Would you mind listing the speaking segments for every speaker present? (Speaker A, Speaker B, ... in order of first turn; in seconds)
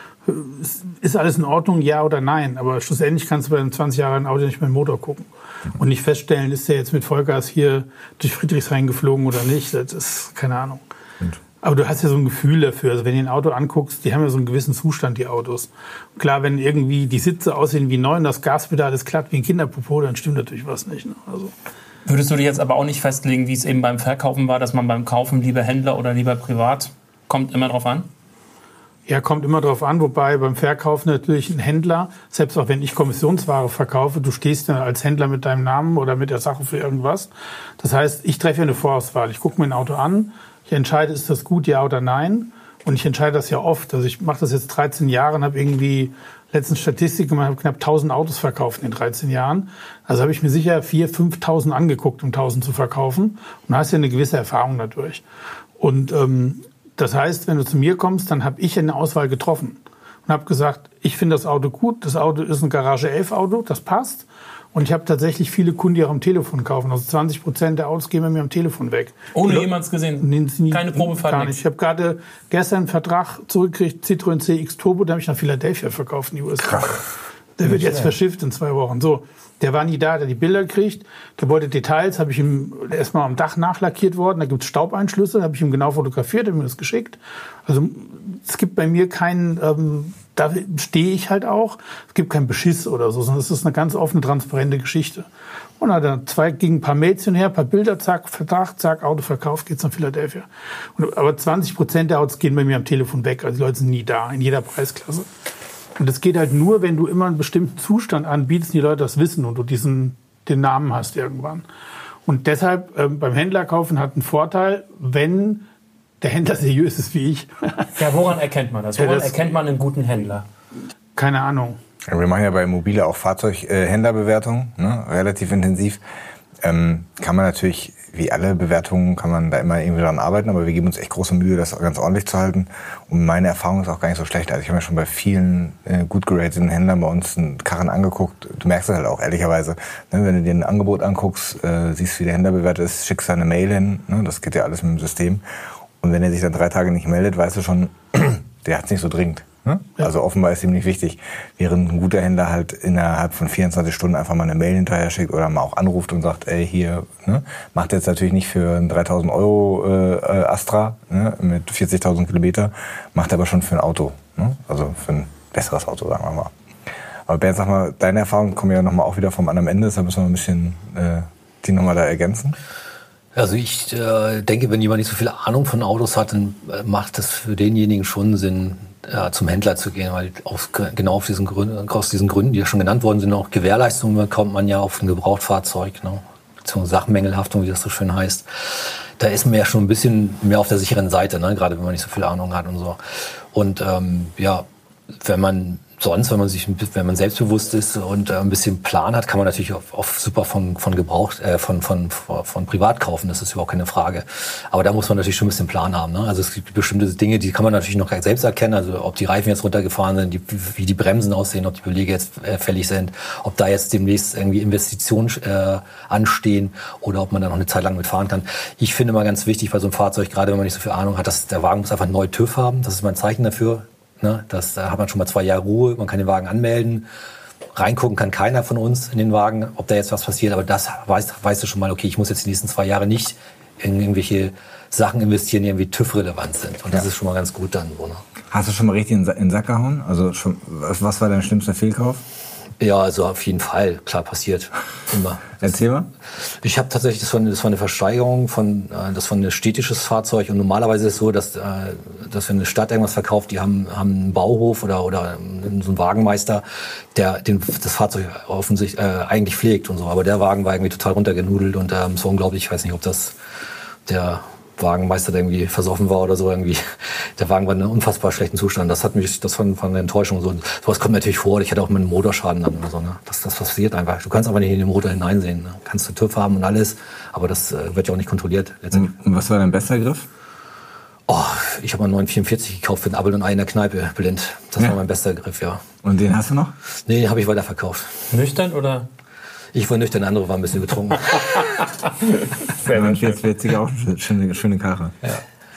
Speaker A: 0.2-10.8, 11.6-21.5, 29.1-55.2, 55.8-77.0, 77.6-95.3, 95.8-105.2, 106.0-111.6, 112.2-115.6, 116.2-117.9, 119.0-119.3, 121.2-121.8
Speaker B: 22.1-28.1, 69.3-71.6, 118.0-120.4, 288.3-289.1, 292.6-293.4
Speaker C: 122.1-126.0, 126.6-145.4, 146.0-166.5, 167.3-172.6, 238.5-242.2, 245.6-246.1, 278.9-280.3, 286.0-286.7, 292.8-295.2
Speaker D: 173.3-193.0, 193.5-194.7, 195.2-227.1, 227.7-238.2, 242.8-245.8, 246.3-263.4, 264.1-279.1, 281.3-285.8, 287.1-288.2, 289.7-291.5